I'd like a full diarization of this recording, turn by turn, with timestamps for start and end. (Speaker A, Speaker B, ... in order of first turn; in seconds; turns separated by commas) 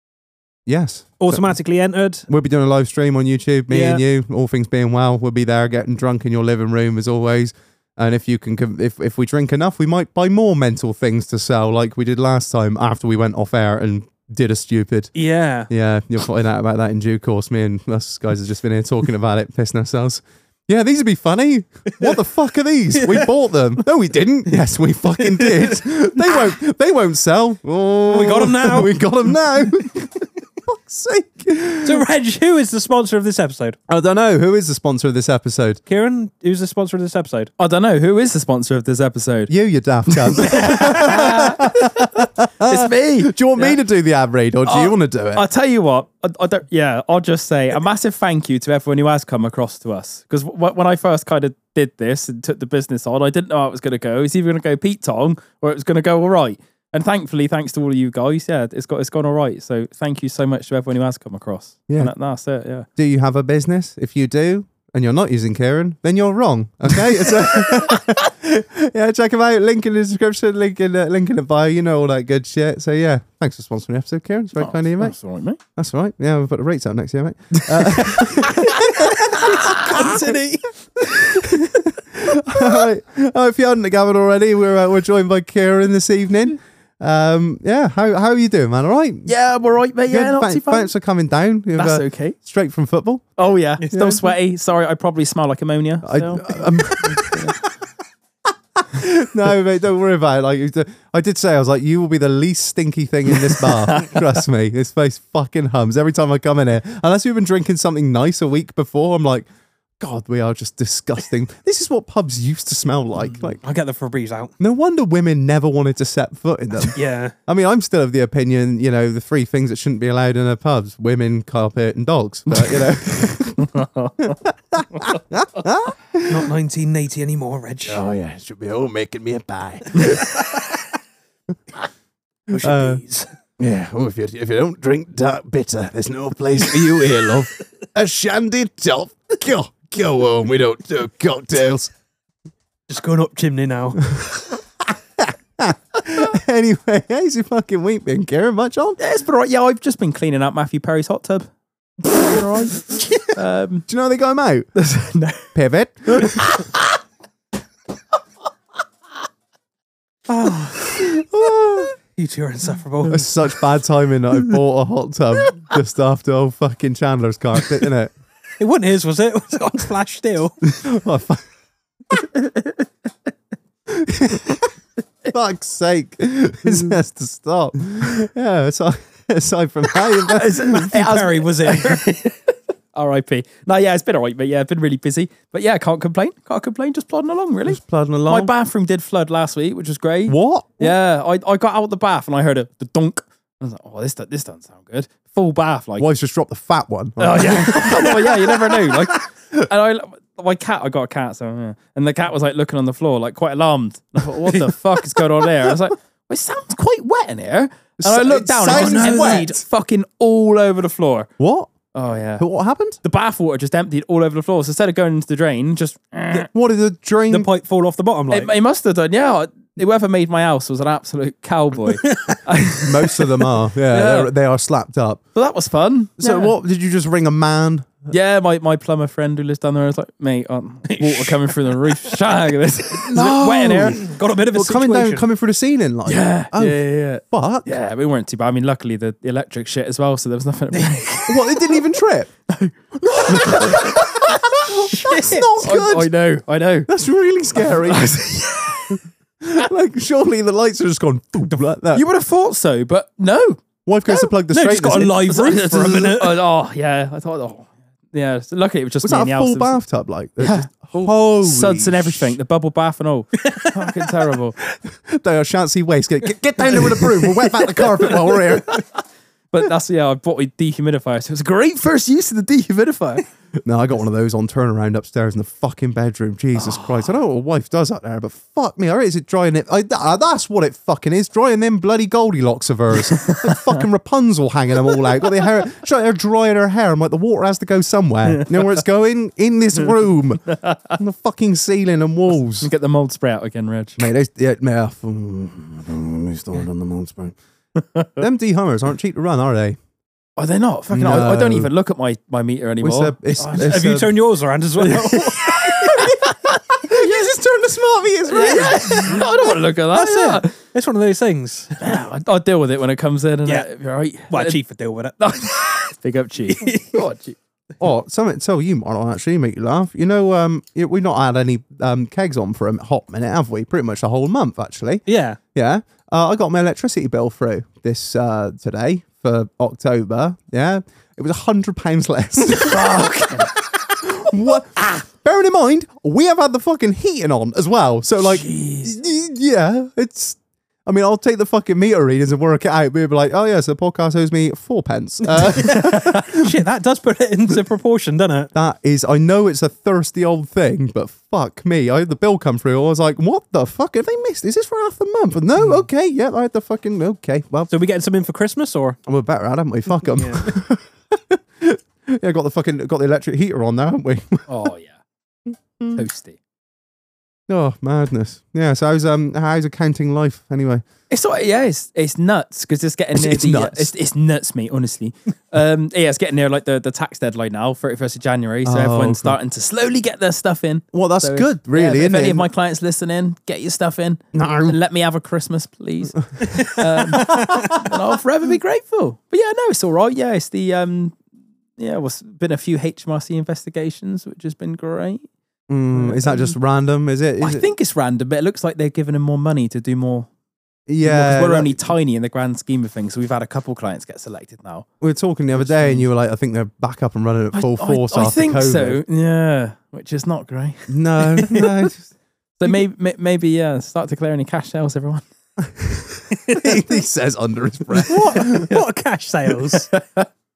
Speaker A: 0.7-1.5, Speaker B: 1.2-2.3, Speaker A: 2.3-15.1, Speaker B: 3.7-4.0, Speaker B: 15.2-15.7, Speaker A: 15.7-32.0, Speaker B: 23.0-23.3, Speaker B: 25.3-25.8, Speaker B: 28.1-28.9, Speaker B: 31.8-33.8, Speaker A: 33.9-35.8, Speaker B: 35.9-37.5, Speaker C: 37.6-39.5, Speaker A: 39.5-45.4, Speaker C: 40.1-43.8, Speaker C: 44.7-62.9, Speaker A: 61.9-62.1, Speaker A: 63.0-75.2, Speaker C: 67.3-68.0, Speaker C: 74.6-75.6, Speaker A: 75.8-80.2, Speaker C: 77.8-78.1, Speaker B: 78.4-81.9, Speaker A: 81.1-89.3, Speaker C: 89.3-90.9, Speaker A: 90.1-93.2, Speaker C: 91.8-92.4, Speaker C: 93.4-97.6, Speaker B: 93.8-94.1, Speaker A: 93.9-94.3, Speaker A: 96.0-97.4, Speaker A: 98.8-109.5, Speaker C: 103.5-104.2, Speaker A: 110.0-113.6, Speaker B: 113.4-114.5, Speaker A: 114.6-126.5, Speaker B: 116.9-117.3, Speaker C: 122.5-122.9, Speaker C: 123.6-124.3, Speaker B: 126.3-128.0, Speaker A: 127.9-130.3, Speaker B: 130.0-130.7, Speaker B: 132.5-133.3, Speaker A: 132.5-133.0, Speaker A: 133.6-141.9, Speaker B: 142.9-144.1, Speaker A: 144.1-149.0, Speaker C: 149.0-151.5, Speaker C: 152.0-153.9, Speaker A: 153.9-154.7, Speaker C: 154.8-155.5, Speaker A: 155.5-156.6, Speaker C: 156.1-156.9, Speaker B: 160.3-161.2, Speaker A: 161.0-161.9, Speaker B: 162.0-163.6, Speaker A: 163.1-168.1, Speaker B: 168.6-170.6, Speaker A: 170.7-171.4, Speaker A: 173.9-174.7, Speaker A: 175.3-180.9, Speaker C: 180.2-196.1, Speaker B: 180.6-182.2, Speaker A: 187.7-188.5, Speaker A: 190.3-190.9, Speaker A: 196.0-198.8, Speaker C: 197.2-211.3, Speaker B: 197.5-198.1, Speaker B: 204.5-205.2, Speaker A: 208.0-209.6, Speaker B: 208.7-209.5, Speaker A: 211.4-211.7, Speaker C: 211.9-212.4, Speaker A: 212.4-213.0, Speaker C: 213.0-216.5, Speaker A: 216.5-217.5, Speaker B: 217.3-218.5, Speaker C: 218.3-224.3, Speaker B: 222.0-222.4, Speaker A: 222.8-225.2, Speaker C: 225.3-226.5, Speaker A: 226.2-228.1, Speaker C: 228.1-234.1, Speaker B: 230.9-232.2, Speaker A: 233.1-237.7, Speaker B: 233.8-235.3, Speaker C: 236.1-241.8, Speaker A: 241.2-242.3, Speaker C: 242.5-246.9, Speaker A: 243.0-246.1, Speaker B: 244.9-245.5, Speaker A: 246.9-252.0, Speaker C: 247.6-249.0, Speaker C: 251.9-253.6, Speaker A: 253.9-255.4, Speaker B: 254.5-256.4, Speaker C: 254.9-259.8, Speaker A: 259.0-262.4, Speaker C: 260.4-264.6, Speaker B: 263.4-264.1, Speaker A: 264.9-268.8, Speaker C: 268.0-269.0, Speaker C: 269.5-273.2, Speaker A: 273.6-292.7, Speaker C: 276.6-277.1, Speaker C: 288.4-288.7, Speaker C: 290.5-290.9, Speaker C: 292.6-294.1, Speaker A: 294.0-297.4, Speaker A: 298.1-299.8, Speaker C: 300.4-303.9, Speaker A: 300.9-301.7, Speaker A: 302.8-304.1, Speaker B: 303.5-306.1, Speaker C: 304.8-306.6, Speaker A: 306.8-309.3, Speaker C: 308.3-310.5, Speaker B: 308.8-309.3, Speaker B: 309.9-312.0, Speaker C: 311.8-314.6, Speaker B: 314.3-315.9, Speaker C: 315.2-317.4, Speaker B: 316.5-317.1, Speaker A: 317.8-325.0, Speaker B: 325.1-325.4, Speaker A: 325.5-346.5, Speaker C: 332.6-333.5, Speaker C: 338.2-339.0, Speaker B: 345.5-348.5, Speaker A: 348.5-357.7, Speaker B: 357.7-359.0, Speaker A: 359.1-364.5, Speaker B: 360.0-360.5, Speaker C: 364.5-365.0, Speaker C: 365.9-366.4, Speaker A: 367.5-370.9, Speaker C: 371.1-391.2, Speaker A: 373.1-373.9, Speaker A: 378.6-379.4, Speaker A: 380.9-382.5, Speaker A: 384.3-384.8, Speaker A: 386.4-387.9, Speaker B: 386.5-387.8, Speaker C: 391.8-395.3, Speaker A: 395.7-397.6, Speaker C: 395.9-396.6, Speaker C: 397.4-400.3, Speaker A: 400.9-401.8, Speaker C: 401.0-404.9, Speaker A: 405.0-409.0, Speaker C: 405.6-406.1, Speaker C: 407.5-411.8, Speaker A: 410.9-412.1, Speaker C: 412.6-415.2, Speaker A: 415.6-418.8, Speaker B: 418.1-419.9, Speaker C: 419.9-420.3